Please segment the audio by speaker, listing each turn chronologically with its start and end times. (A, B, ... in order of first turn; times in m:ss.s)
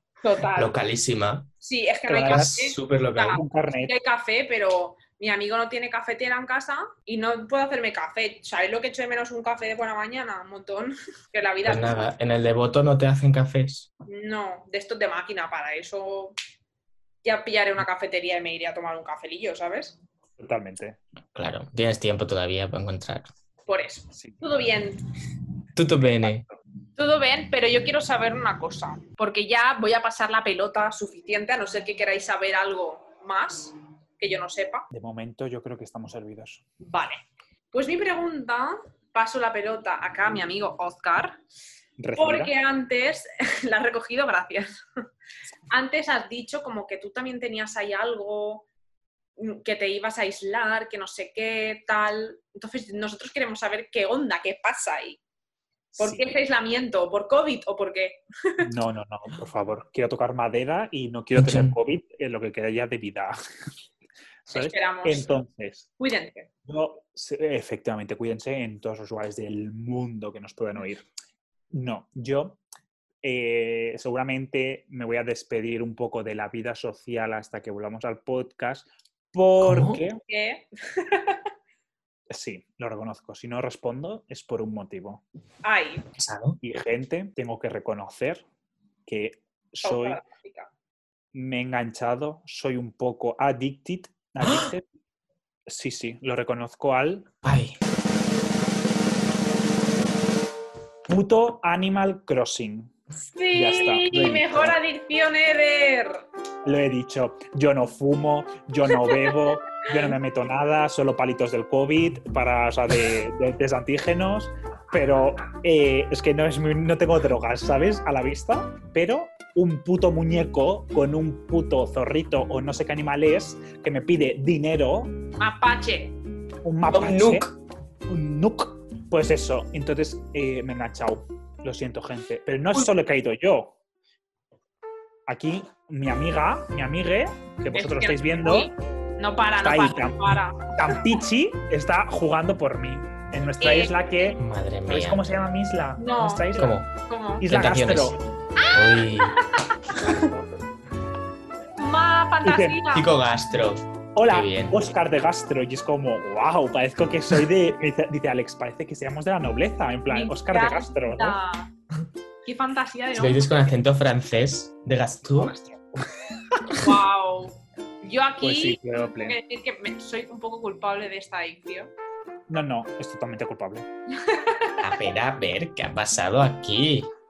0:00.2-0:00.7 A
0:00.6-0:01.5 B
0:01.6-0:12.1 A
0:02.1-0:02.6 C
0:02.2-0:03.4 B
0:03.3-0:03.9 C
0:11.6-0:13.9 B
0:14.1-0:16.4 A
0:17.2-0:20.0 A
0:20.4-0:21.0 C
0:21.4-0:23.3 B
0:23.7-0:25.0 A
0:24.1-0:24.4 C
0:25.8-0:26.4 B
0:27.0-0:34.9 A
0:34.9-0:36.6 C
0:36.8-0:41.4 A
0:42.0-0:42.5 C
0:42.2-0:44.8 A
0:45.7-0:48.7 A
0:49.4-0:55.2 A
0:56.0-0:56.3 C
0:56.0-0:58.7 A
0:58.6-1:03.4 C
1:01.4-1:01.8 B
1:04.5-1:05.9 C
1:04.5-1:05.2 A
1:06.0-1:06.5 A
1:06.7-1:11.1 C
1:11.7-1:12.6 C
1:13.2-1:20.2 C
1:19.6-1:20.0 B
1:20.3-1:21.4 A
1:22.3-1:25.2 C
1:25.6-1:26.1 A
1:26.2-1:26.6 B
1:26.6-1:28.4 C
1:29.1-1:30.2 C
1:29.8-1:30.7 A
1:31.3-1:34.9 C
1:34.4-1:34.7 B
1:35.7-1:37.3 C
1:37.4-1:37.8 B
1:41.1-1:42.9 C
1:43.3-1:46.2 A
1:43.5-1:44.8 C
1:46.6-2:05.2 C
1:49.0-1:49.4 A
2:05.4-2:06.2 A
2:06.6-2:07.5 C
2:06.9-2:07.5 B
2:08.1-2:13.8 C
2:15.3-2:18.7 C
2:17.7-2:21.0 A
2:19.6-2:26.8 C
2:23.6-2:23.9 A
2:24.4-2:25.2 B
2:26.0-2:27.4 A
2:26.6-2:26.9 B
2:27.4-2:28.2 C
2:27.5-2:28.2 B
2:28.6-2:29.6 A
2:28.7-2:29.4 B
2:30.0-2:30.5 C
2:31.8-2:33.1 A
2:32.4-2:32.8 C
2:32.9-2:34.8 B
2:34.2-2:41.4 C
2:40.1-2:41.7 A
2:42.4-2:43.7 A
2:43.2-2:45.5 B
2:45.4-2:45.8 C
2:46.8-2:51.9 A
2:48.4-2:49.4 C
2:52.5-2:53.9 C
2:54.2-2:54.8 A
2:54.8-2:57.1 B